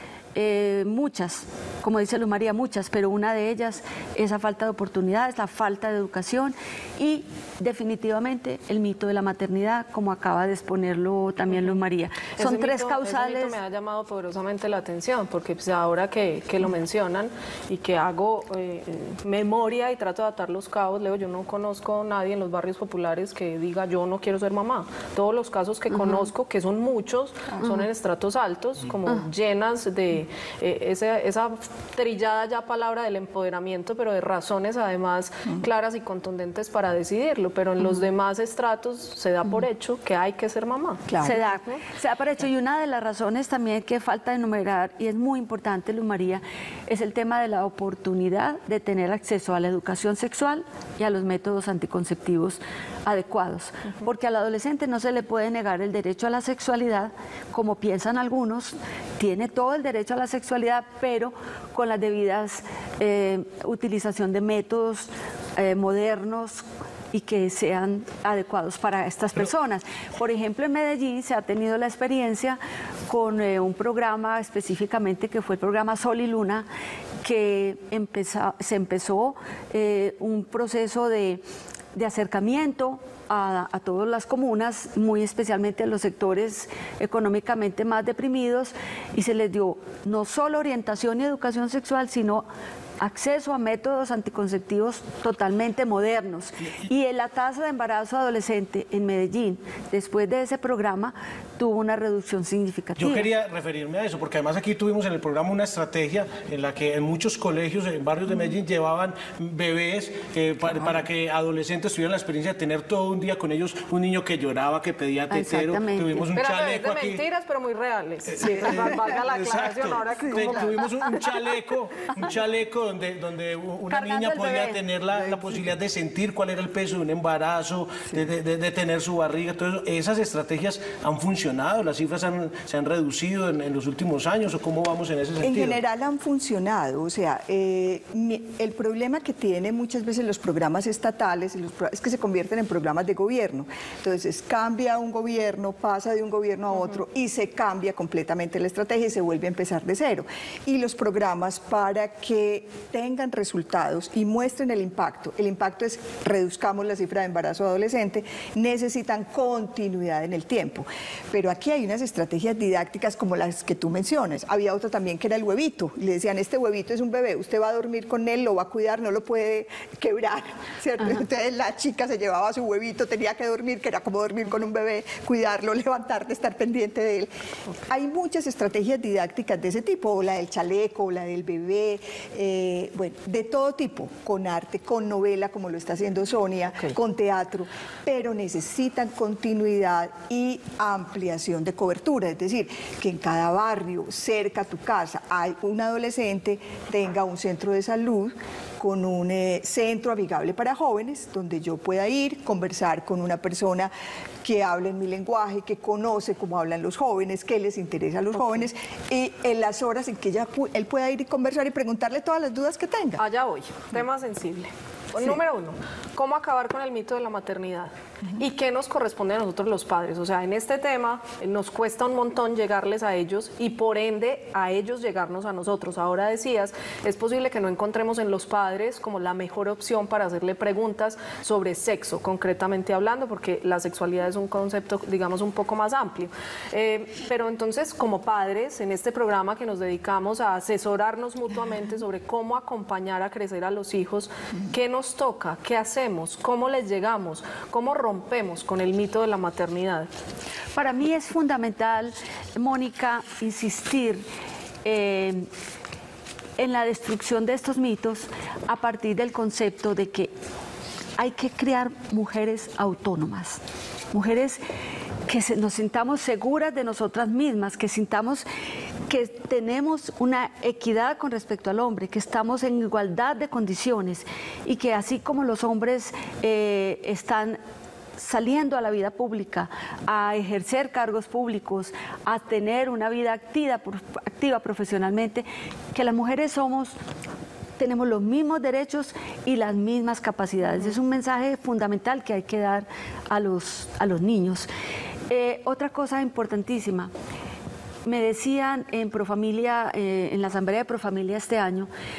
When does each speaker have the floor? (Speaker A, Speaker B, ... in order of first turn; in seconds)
Speaker A: 0.3-13.6, 26.0-26.3, 41.2-76.7, 77.2-81.4, 81.9-92.5, 93.0-103.3, 115.3-116.3, 123.9-124.8, 250.8-254.3, 254.8-255.5, 256.6-260.3, 261.2-263.6, 264.1-264.6, 265.3-268.5, 269.1-277.6, 278.2-287.0, 287.8-294.7, 295.3-297.1, 298.1-301.9
Speaker B: 12.4-41.1, 116.3-120.9, 213.2-250.1
Speaker C: 41.1-41.4, 118.4-119.2, 120.2-120.8, 135.4-177.3, 177.8-203.9, 204.4-213.2
Speaker D: 103.0-117.2, 118.3-135.8